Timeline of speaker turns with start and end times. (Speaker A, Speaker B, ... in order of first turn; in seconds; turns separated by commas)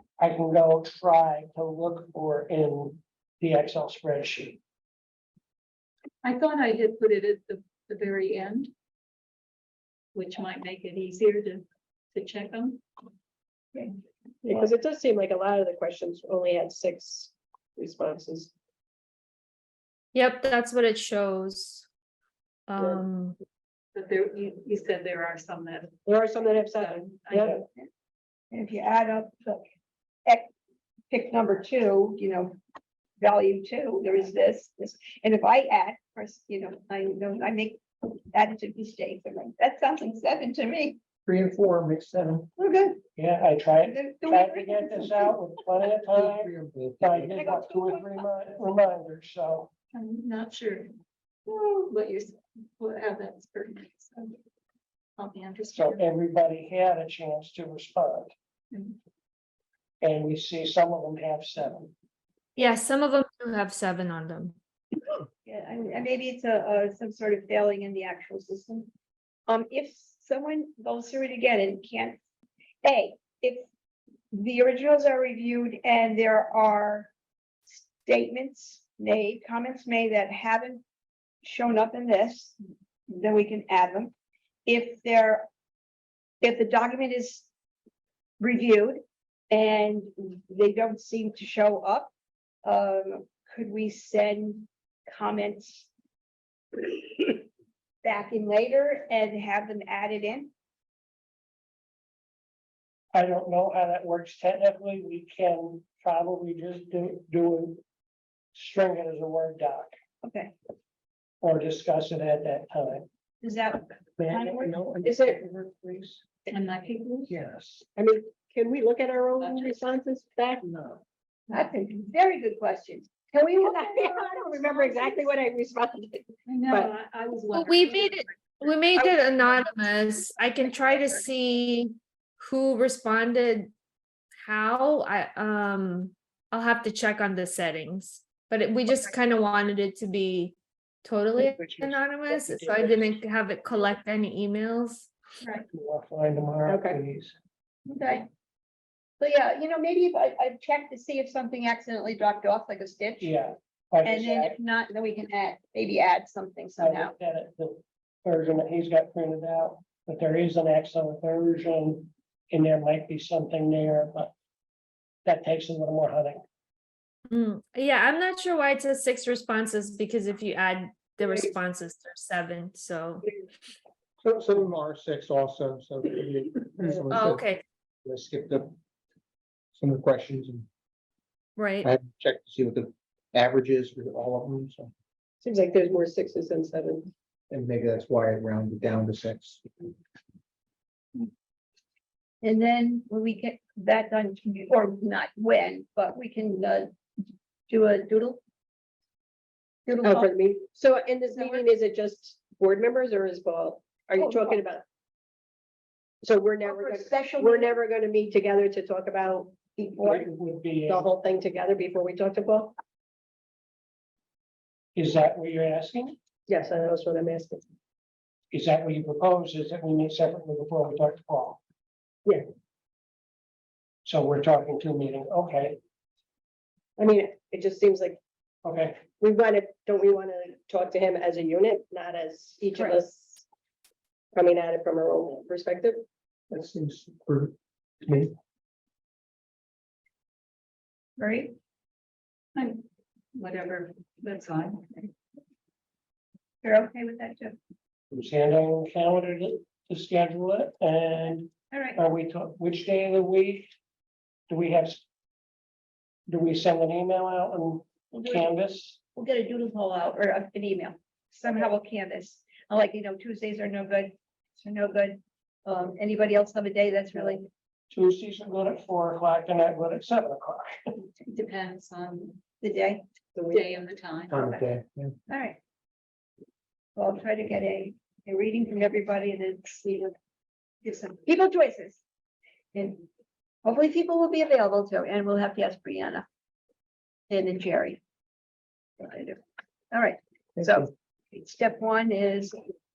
Speaker A: 0.2-4.6, Speaker B: 6.2-8.7, Speaker B: 10.1-12.8, Speaker C: 14.4-18.5, Speaker D: 20.1-21.9, Speaker D: 22.7-23.4, Speaker B: 23.9-26.0, Speaker C: 26.1-27.6, Speaker B: 26.5-27.6, Speaker E: 28.5-29.6, Speaker E: 31.1-32.6, Speaker E: 33.2-41.0, Speaker F: 41.2-42.5, Speaker E: 42.6-43.0, Speaker A: 43.1-49.7, Speaker E: 43.9-45.3, Speaker F: 46.1-47.4, Speaker E: 47.4-48.2, Speaker B: 49.9-50.9, Speaker B: 51.5-54.4, Speaker B: 55.2-56.0, Speaker A: 55.7-58.3, Speaker A: 60.0-61.9, Speaker D: 62.5-64.5, Speaker E: 65.5-68.9, Speaker E: 69.5-72.2, Speaker E: 72.8-73.7, Speaker E: 74.3-77.1, Speaker E: 77.7-80.8, Speaker E: 81.4-82.6, Speaker E: 83.1-84.1, Speaker E: 84.7-85.5, Speaker E: 86.4-87.5, Speaker E: 88.4-92.1, Speaker E: 92.6-95.9, Speaker E: 96.7-97.4, Speaker E: 98.0-100.5, Speaker A: 103.1-107.8, Speaker A: 108.5-109.9, Speaker E: 110.2-110.5, Speaker A: 111.4-113.0, Speaker E: 113.4-114.9, Speaker A: 114.2-116.2, Speaker C: 115.0-115.4, Speaker B: 116.5-117.3, Speaker A: 117.3-117.8, Speaker C: 118.0-121.0, Speaker B: 119.4-119.7, Speaker E: 121.5-125.3, Speaker C: 123.3-126.9, Speaker B: 126.5-128.7, Speaker D: 127.5-133.7, Speaker D: 134.4-145.1, Speaker A: 141.4-143.2, Speaker A: 145.7-147.3, Speaker C: 146.7-147.0, Speaker E: 147.9-148.3, Speaker E: 149.2-153.3, Speaker A: 153.2-154.5, Speaker E: 154.0-157.1, Speaker A: 156.8-164.3, Speaker A: 165.2-166.4, Speaker D: 167.3-173.2, Speaker C: 171.2-171.5, Speaker F: 174.2-177.5, Speaker D: 177.1-177.6, Speaker F: 178.0-178.7, Speaker F: 179.7-180.7, Speaker D: 181.6-181.9, Speaker F: 181.8-184.9, Speaker C: 185.4-187.1, Speaker F: 187.5-189.9, Speaker E: 192.4-196.9, Speaker E: 197.7-198.4, Speaker E: 199.8-200.3, Speaker C: 200.0-204.8, Speaker E: 201.3-201.7, Speaker E: 204.2-204.6, Speaker C: 206.2-209.6, Speaker E: 206.6-207.8, Speaker E: 209.7-210.3, Speaker A: 210.0-211.1, Speaker C: 210.9-212.8, Speaker A: 214.9-216.1, Speaker C: 216.5-217.7, Speaker A: 218.5-221.6, Speaker A: 224.0-225.8, Speaker C: 227.0-228.2, Speaker A: 228.6-229.0, Speaker C: 229.1-233.4, Speaker C: 234.3-236.0, Speaker F: 236.5-238.3, Speaker E: 241.2-241.6, Speaker B: 242.6-242.8, Speaker B: 243.3-245.1, Speaker E: 246.6-247.6, Speaker A: 248.1-253.7, Speaker E: 251.7-252.0, Speaker A: 254.5-255.0, Speaker A: 256.3-259.0, Speaker E: 258.1-258.5, Speaker E: 259.1-267.5, Speaker A: 267.9-270.8, Speaker B: 271.2-272.4, Speaker E: 272.6-273.0, Speaker C: 273.3-273.6, Speaker B: 273.5-274.6, Speaker F: 274.3-275.1, Speaker E: 275.3-275.6, Speaker E: 276.9-280.1, Speaker E: 280.8-282.0, Speaker E: 282.7-283.0, Speaker E: 283.6-286.2, Speaker E: 287.3-288.0, Speaker E: 289.0-289.4, Speaker E: 289.9-292.6